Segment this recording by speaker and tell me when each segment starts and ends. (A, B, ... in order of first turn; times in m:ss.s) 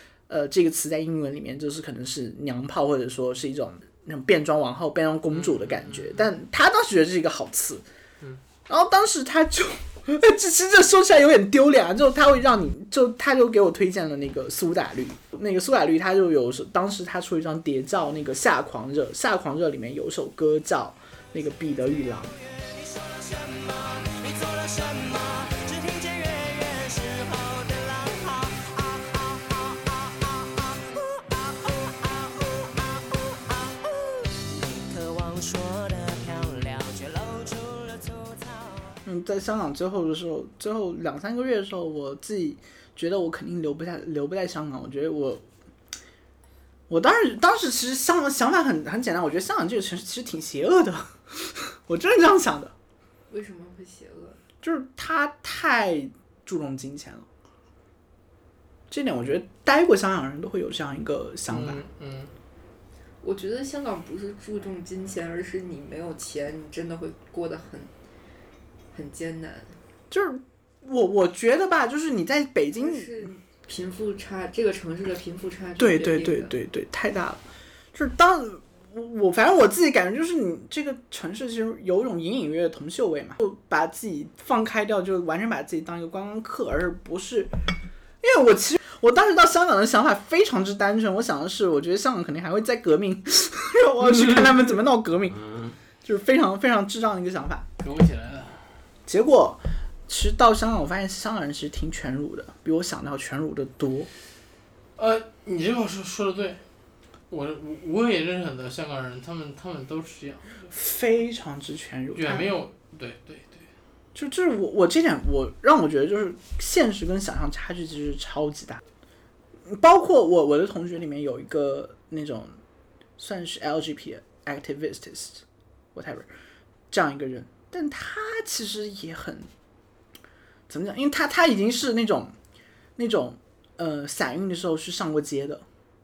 0:00.3-0:07.8 A
0:05.3-0:06.2 B
0:08.7-0:22.4 A
0:22.3-0:39.0 C
0:39.0-0:45.4 A
0:46.9-0:52.7 A
0:53.3-0:54.4 D
0:54.6-0:57.3 A
0:58.9-1:01.8 A
1:01.5-1:02.3 B
1:03.2-1:07.9 D
1:08.9-1:09.8 D
1:10.1-1:13.3 A
1:12.8-1:16.6 D
1:15.8-1:17.4 A
1:17.9-1:27.5 A
1:28.2-1:37.7 A
1:37.8-1:38.7 B
1:39.0-1:44.1 A
1:45.0-1:46.6 B
1:47.3-1:50.7 B
1:50.7-1:52.6 A
1:52.1-1:53.7 B
1:54.1-1:58.8 A
1:59.6-2:02.6 A
2:03.2-2:05.4 A
2:05.9-2:06.3 A
2:06.9-2:09.5 A
2:10.7-2:12.3 A
2:13.0-2:15.6 A